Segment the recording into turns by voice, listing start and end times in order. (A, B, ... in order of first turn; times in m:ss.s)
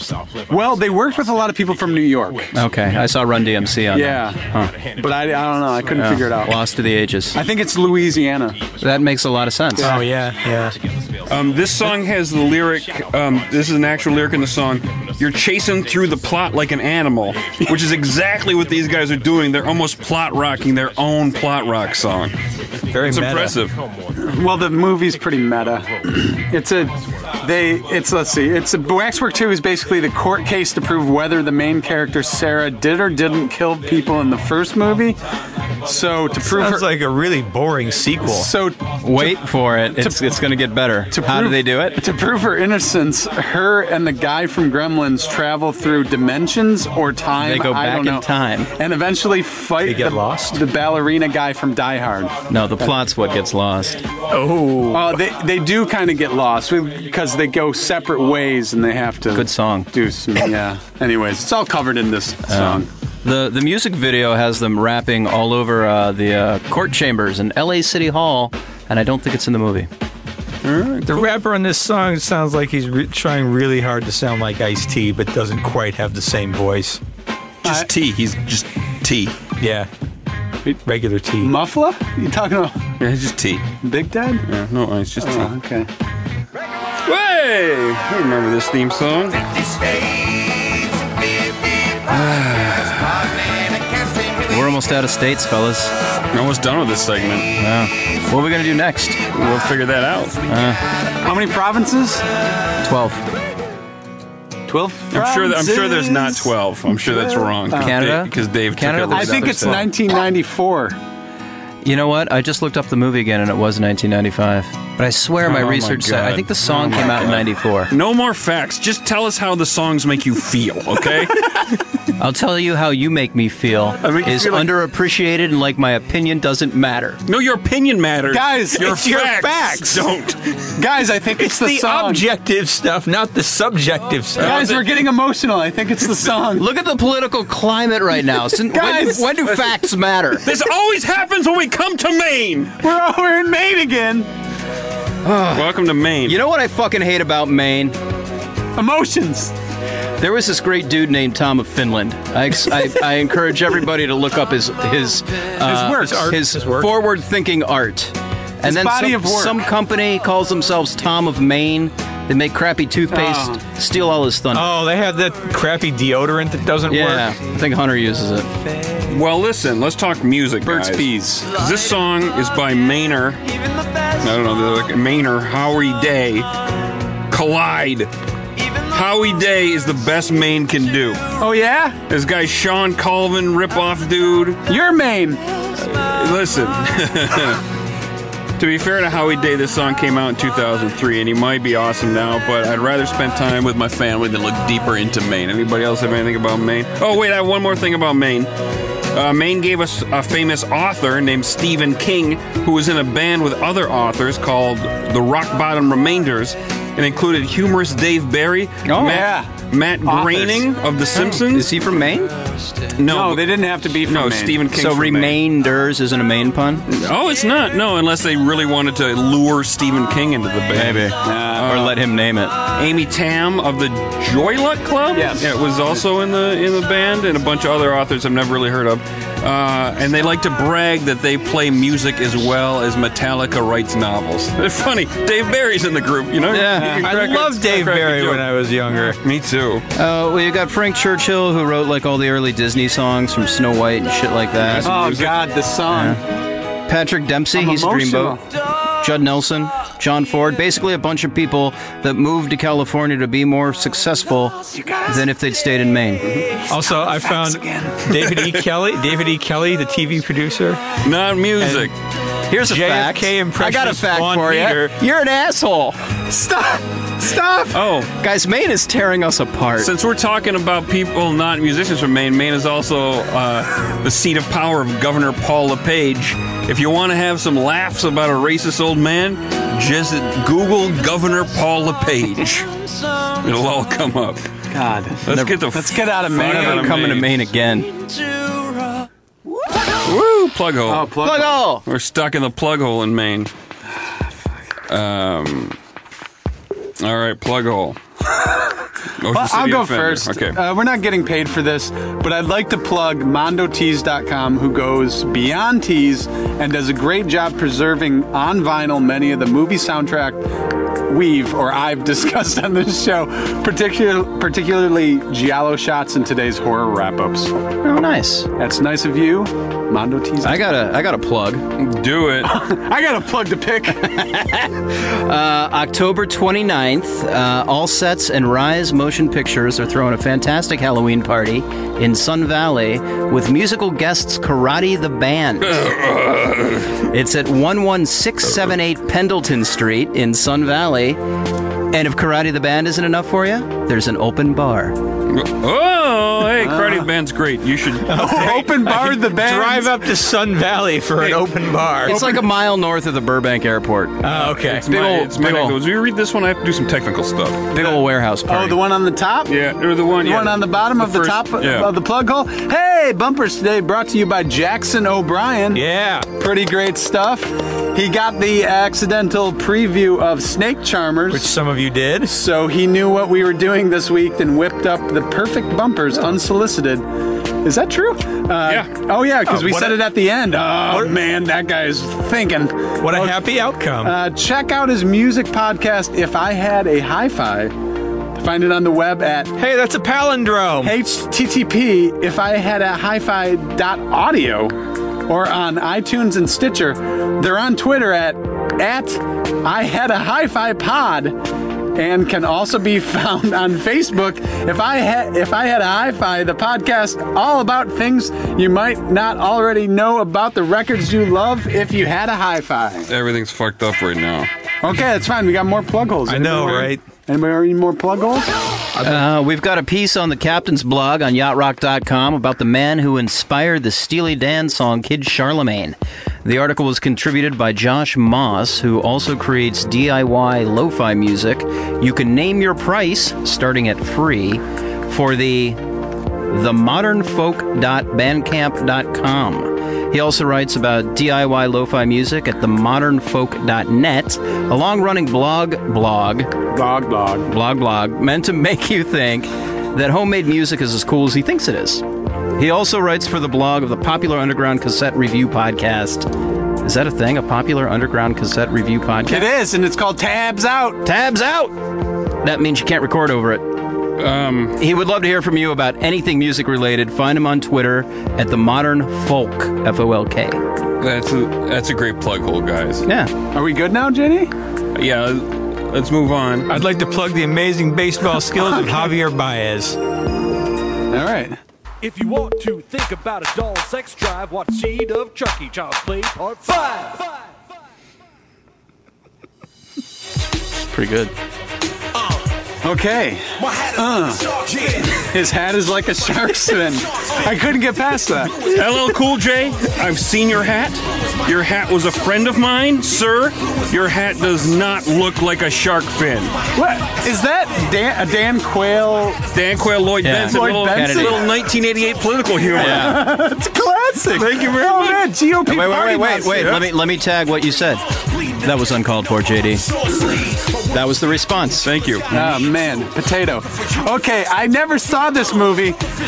0:00.5-0:02.6 A
0:02.5-0:04.7 B
0:03.9-0:06.6 A
0:05.9-0:07.4 B
0:07.3-0:08.6 A
0:08.8-0:10.0 B
0:09.8-0:10.1 A
0:09.8-0:10.8 C
0:11.3-0:22.4 D
0:22.9-0:23.6 C
0:23.0-0:23.8 D
0:24.2-0:35.2 A
0:35.8-0:36.9 A
0:36.4-0:38.5 C
0:38.2-0:39.4 A
0:39.0-0:42.0 B
0:41.1-0:52.9 A
0:47.4-0:48.7 B
0:49.8-0:50.6 C
0:52.5-0:54.0 B
0:54.3-0:55.2 C
0:54.9-1:02.9 A
0:59.3-0:59.9 B
1:02.5-1:09.9 B
1:10.6-1:11.2 D
1:11.0-1:17.0 C
1:17.6-1:19.4 D
1:19.6-1:19.9 C
1:20.7-1:21.5 C
1:21.4-1:22.8 A
1:23.0-1:23.7 D
1:23.8-1:24.4 A
1:24.5-1:25.5 D
1:25.2-1:25.9 A
1:27.0-1:29.4 D
1:32.1-1:33.3 D
1:34.5-1:35.9 B
1:36.3-1:37.5 D
1:37.6-1:39.2 B
1:39.3-1:40.4 D
1:40.4-1:40.8 B
1:41.2-1:42.2 A
1:42.8-1:43.2 B
1:44.7-1:48.0 A
1:45.1-1:49.9 D
1:47.7-1:49.9 B
1:49.1-1:51.0 A
1:51.8-1:57.9 B
1:55.4-2:01.5 D
2:02.2-2:07.2 B
2:04.0-2:04.7 A
2:07.2-2:10.6 D
2:08.3-2:09.1 A
2:08.7-2:10.1 C
2:10.8-2:12.2 A
2:11.4-2:14.7 C
2:14.4-2:15.1 D
2:14.4-2:16.7 A
2:16.6-2:20.5 B
2:18.7-2:19.5 A
2:20.4-2:22.8 D
2:22.8-2:24.3 A
2:25.2-2:28.0 B
2:25.5-2:26.4 D
2:28.8-2:29.5 A
2:30.2-2:44.7 B
2:35.6-2:36.3 A
2:35.7-2:36.9 C
2:38.6-2:39.6 A
2:43.1-2:43.6 A
2:44.5-2:47.3 C
2:46.9-2:48.6 B
2:49.1-2:53.4 D
2:50.6-2:51.5 A
2:54.2-2:56.5 D
2:57.3-2:58.1 D
2:58.9-3:01.2 D
3:01.4-3:02.0 A
3:02.1-3:04.7 D
3:04.7-3:05.4 A
3:05.8-3:07.6 D
3:08.6-3:18.5 D
3:19.1-3:31.7 D
3:28.8-3:29.2 B
3:29.0-3:29.5 A
3:30.0-3:30.6 A
3:31.1-3:32.3 B
3:33.0-3:33.5 D
3:33.1-3:34.6 A
3:34.0-3:35.4 D
3:34.7-3:36.8 B
3:36.9-3:41.9 D
3:40.7-3:42.6 B
3:41.2-3:41.8 A
3:42.7-3:58.4 D
3:45.1-3:45.5 A
3:56.5-3:57.1 B
3:56.6-3:59.2 C
3:59.2-3:59.8 D
3:59.9-4:05.0 B
4:04.6-4:05.5 D
4:04.8-4:06.2 A
4:05.9-4:06.2 B
4:06.8-4:16.2 B
4:07.5-4:08.4 A
4:14.8-4:15.2 A
4:16.7-4:20.8 C
4:16.7-4:18.0 A
4:18.2-4:18.6 D
4:21.0-4:21.9 D
4:21.6-4:21.9 C
4:22.5-4:26.1 B
4:22.6-4:24.9 C
4:26.3-4:27.8 A
4:27.7-4:28.1 D
4:28.1-4:29.9 B
4:29.8-4:42.7 D
4:43.4-4:44.4 D
4:44.7-4:47.2 A
4:45.2-4:47.3 D
4:45.3-4:45.7 B
4:46.3-4:48.4 B
4:50.0-4:51.1 D
4:50.8-4:51.6 A
4:51.2-4:51.8 B
4:51.8-4:53.5 D
4:54.9-4:55.8 D
4:57.0-4:58.0 D
4:59.2-5:00.6 D
4:59.3-5:17.6 A
5:17.8-5:18.5 B
5:18.6-5:20.7 A
5:20.4-5:21.6 B
5:21.8-5:22.5 D
5:22.4-5:24.1 A
5:24.0-5:35.9 B
5:35.6-5:37.0 D
5:37.1-5:41.2 B
5:41.9-5:45.0 B
5:45.3-5:48.3 D
5:46.6-5:47.1 A
5:48.0-5:52.2 C
5:48.1-5:50.0 A
5:52.0-5:52.5 A
5:52.0-5:54.3 B
5:54.2-5:55.0 C
5:54.4-5:57.7 D
5:54.9-5:55.8 B
5:57.7-5:58.8 B
5:57.8-5:59.6 A
5:59.5-6:01.9 D
6:00.1-6:11.5 A
6:05.7-6:06.3 C
6:11.3-6:12.3 C
6:12.2-6:23.4 A
6:19.5-6:20.0 C
6:20.8-6:21.1 C
6:23.0-6:24.1 C
6:24.0-6:27.8 A
6:28.3-6:29.5 A
6:29.6-6:31.0 C
6:30.8-6:34.7 A
6:35.2-6:41.4 A
6:41.9-6:53.1 A
6:53.1-6:54.5 D
6:54.8-6:58.5 A
6:56.2-6:57.0 C
6:59.0-6:59.2 C
6:59.0-7:15.8 B
7:16.4-7:26.6 B
7:26.7-7:27.5 A
7:27.4-7:39.5 B
7:39.2-7:41.0 A
7:41.0-7:43.8 B
7:44.2-7:44.8 D
7:44.8-7:50.6 B
7:51.0-7:53.0 D
7:53.0-7:53.3 B
7:53.5-7:54.5 A
7:54.9-7:56.7 D
7:56.7-8:00.0 C
7:58.5-7:59.1 A
8:01.1-8:01.6 A
8:02.0-8:07.3 E
8:10.9-8:11.3 B
8:12.8-8:18.7 A
8:18.6-8:26.6 D
8:26.7-8:29.4 A
8:29.5-8:33.2 D
8:30.2-8:31.4 B
8:30.4-8:31.5 A
8:32.6-8:36.8 A
8:32.7-8:33.3 B
8:34.3-8:35.2 D
8:35.6-8:39.9 B
8:36.5-8:36.8 D
8:40.9-8:42.6 B
8:41.8-8:42.3 D
8:42.3-8:46.0 A